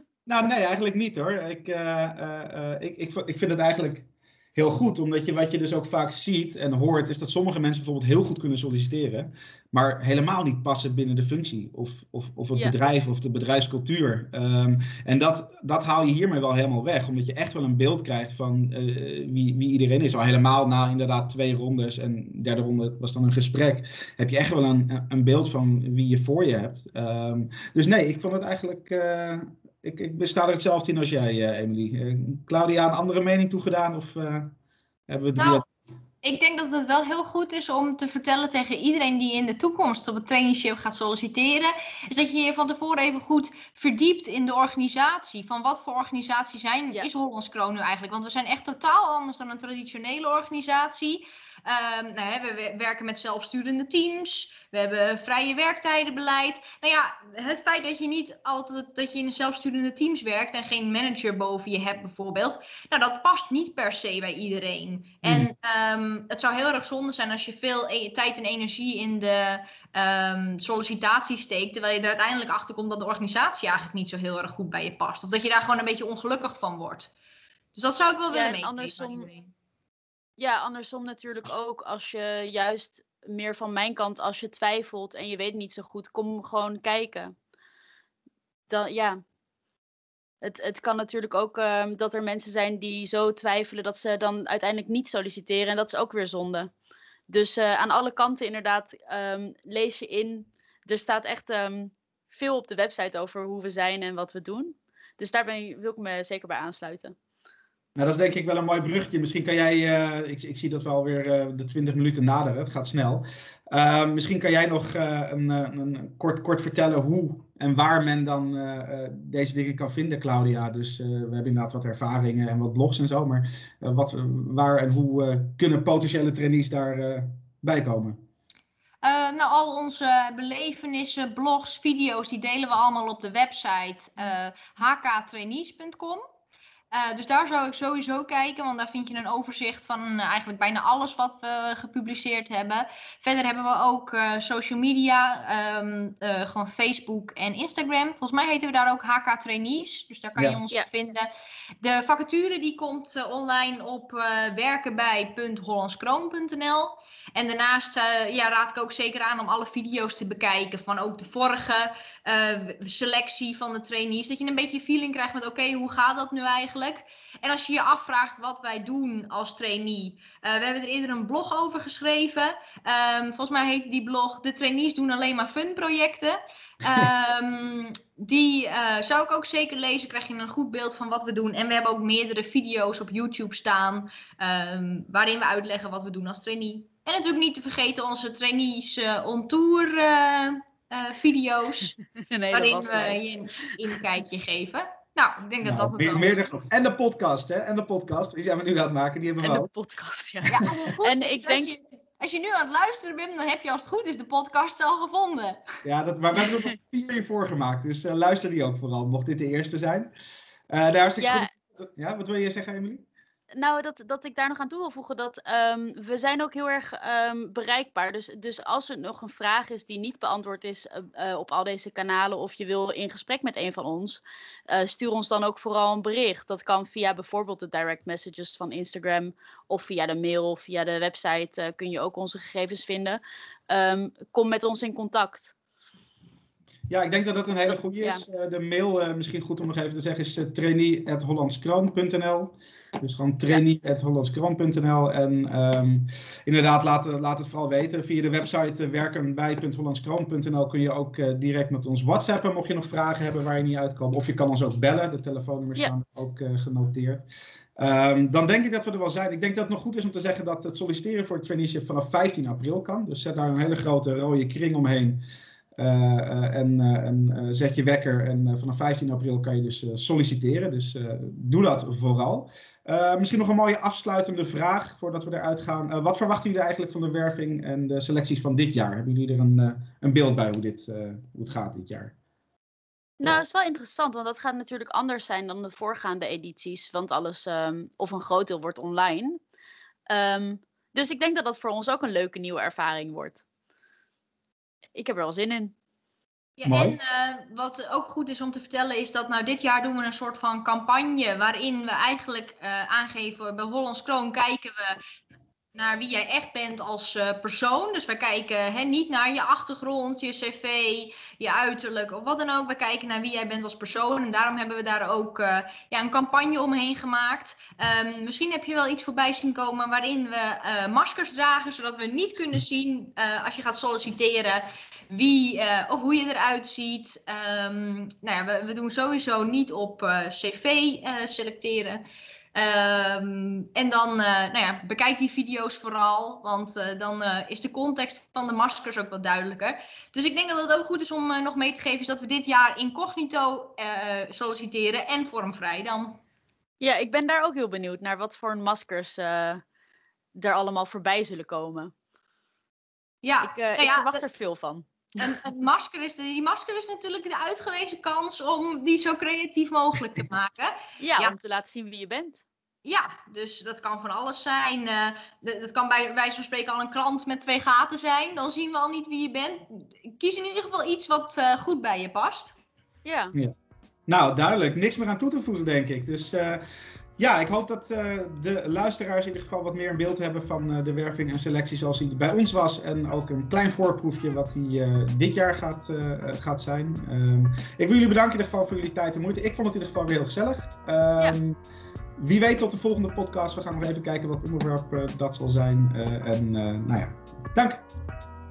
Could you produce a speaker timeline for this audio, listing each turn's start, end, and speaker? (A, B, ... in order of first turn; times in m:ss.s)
0:00.2-0:34.5 A
0:35.1-0:35.6 A
0:35.4-0:35.6 B
0:36.2-1:17.1 B
1:05.2-1:05.5 A
1:17.7-1:19.5 B
1:18.3-1:19.3 C
1:20.4-1:27.3 C
1:28.7-1:29.2 C
1:30.4-1:36.7 C
1:37.3-1:47.1 C
1:48.0-2:08.2 A
2:09.0-2:16.2 B
2:16.9-2:31.3 B
2:31.8-3:11.9 B
3:12.1-3:13.3 C
3:12.5-3:16.7 B
3:15.6-3:19.7 A
3:19.4-3:21.7 C
3:20.5-3:25.6 B
3:25.8-3:30.1 A
3:30.7-3:33.0 A
3:31.2-3:31.5 C
3:33.5-3:55.5 C
3:56.9-4:17.2 A
3:57.7-3:58.2 C
4:17.8-4:25.2 A
4:25.8-4:42.1 A
4:43.2-4:49.4 C
4:50.1-4:53.4 C
4:54.9-4:55.7 C
4:56.6-5:05.0 B
4:56.7-4:57.0 A
5:05.7-5:32.0 B
5:32.5-5:46.2 B
5:46.8-5:49.6 C
5:50.4-5:51.9 C
5:53.2-5:54.2 B
5:53.4-5:55.4 C
5:55.2-6:01.4 B
6:01.0-6:02.4 C
6:02.8-6:12.5 B
6:13.0-6:13.3 C
6:14.1-6:16.6 A
6:17.2-6:31.6 A
6:32.2-6:37.8 A